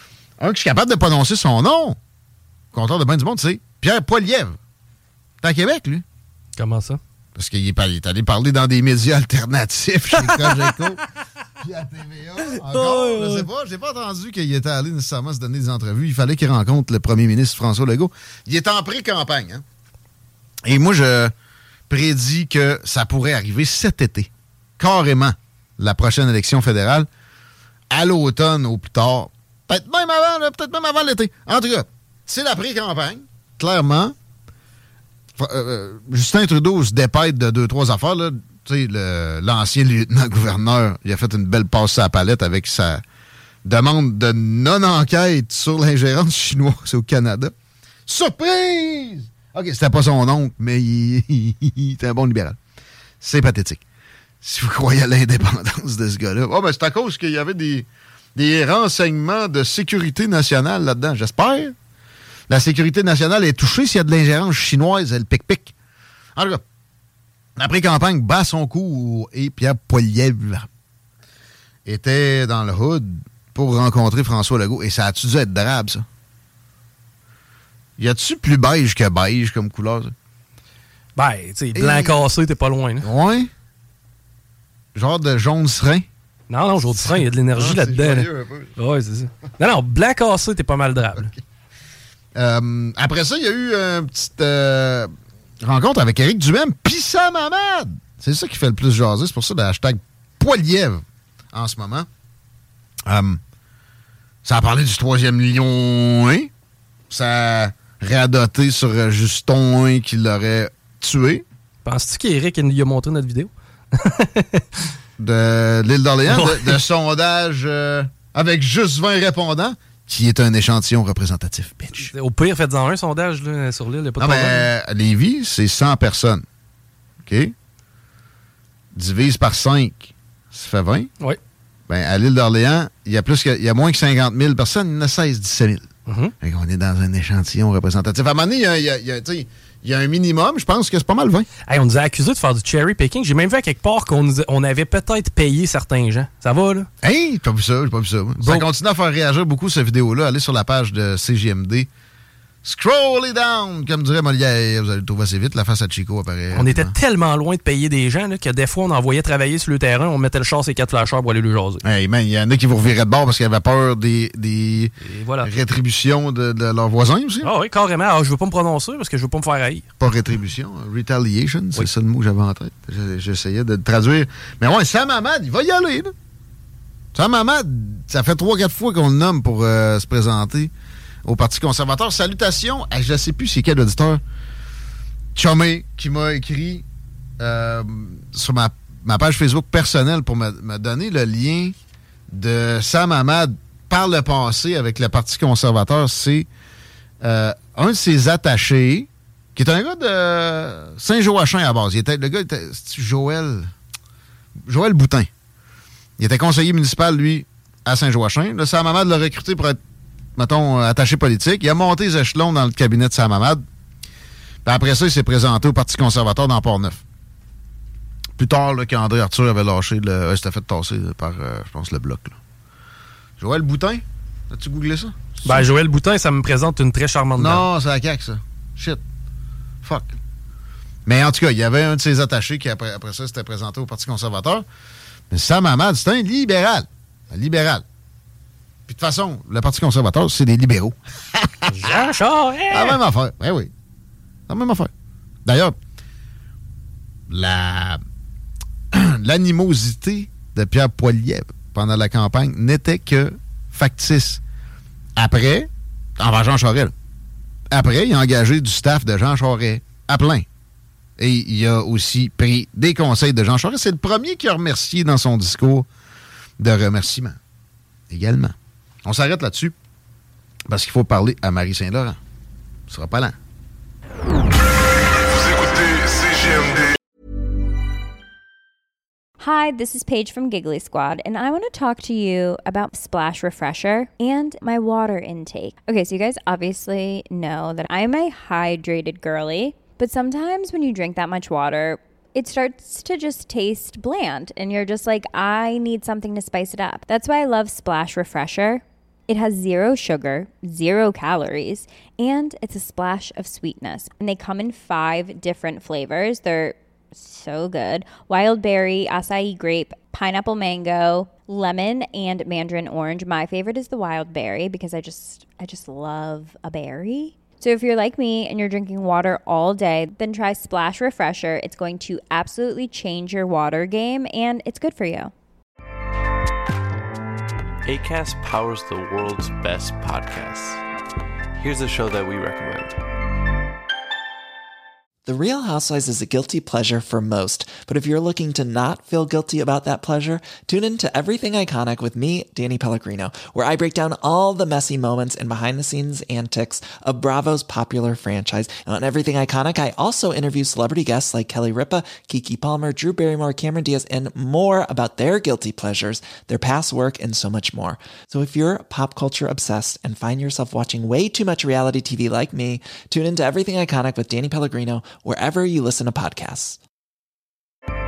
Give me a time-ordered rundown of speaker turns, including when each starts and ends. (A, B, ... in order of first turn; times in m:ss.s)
0:00.4-0:02.0 A
0:02.7-0:04.6 A
0:05.4-0:06.0 A
0:06.6-0:07.0 B
0:07.4-0:11.0 A
0:10.2-0:10.7 B
0:11.6-0:19.6 A
0:12.5-0:13.5 B
0:20.7-0:21.3 A
0:21.9-0:27.1 A
0:27.9-0:34.2 A
0:35.4-0:43.0 A
0:43.6-0:47.5 A
0:48.1-0:52.6 A
0:53.2-0:53.8 A
0:54.4-1:01.8 A
1:02.5-1:05.7 A
1:06.4-1:06.6 A
1:07.6-1:10.7 A
1:11.9-1:16.1 A
1:18.0-1:20.1 A
1:21.2-1:23.1 B
1:21.8-1:22.2 A
1:23.0-1:23.5 A
1:25.0-1:26.1 A
1:26.5-1:31.3 B
1:26.8-1:28.7 A
1:32.4-1:35.1 A
1:35.6-1:42.1 A
1:43.1-1:43.4 A
1:44.4-1:46.5 A
1:47.1-1:51.4 A
1:51.8-1:54.6 B
1:55.2-2:02.1 A
1:56.3-1:56.8 B
2:01.9-2:04.7 B
2:04.2-2:06.4 A
2:07.2-2:07.5 A
2:08.9-2:11.1 A
2:11.9-2:15.9 A
2:16.1-2:16.3 B
2:16.4-2:21.5 A
2:21.7-2:26.9 B
2:27.0-2:31.9 A
2:32.6-2:37.0 A
2:36.5-2:41.8 B
2:41.8-2:47.5 A
2:45.1-2:45.5 B
2:47.4-2:49.9 B
2:50.0-2:56.1 A
2:57.1-3:00.7 A
3:01.2-3:04.2 A
3:05.4-3:06.9 A
3:07.4-3:11.7 A
3:12.3-3:16.5 A
3:17.2-3:23.7 A
3:24.7-3:25.3 A
3:26.2-3:29.8 A
3:30.4-3:33.6 A
3:34.6-3:37.0 A
3:38.4-3:42.4 A
3:43.4-3:45.6 A
3:45.4-3:47.7 B
3:47.4-3:49.0 A
3:49.8-3:50.2 A
3:51.1-3:54.6 A
3:55.3-3:57.8 A
3:58.9-4:02.0 A
4:01.7-4:03.0 B
4:02.7-4:03.7 A
4:04.5-4:04.9 A
4:05.4-4:05.8 A
4:07.3-4:08.0 A
4:08.9-4:14.4 A
4:15.2-4:16.9 A
4:17.7-4:20.4 A
4:21.2-4:25.9 A
4:26.6-4:27.4 A
4:28.1-4:29.8 A
4:30.7-4:32.2 A
4:32.9-4:33.4 A
4:39.4-5:25.3 C
5:27.8-5:30.8 D
5:31.6-5:33.0 D
5:35.3-6:06.8 E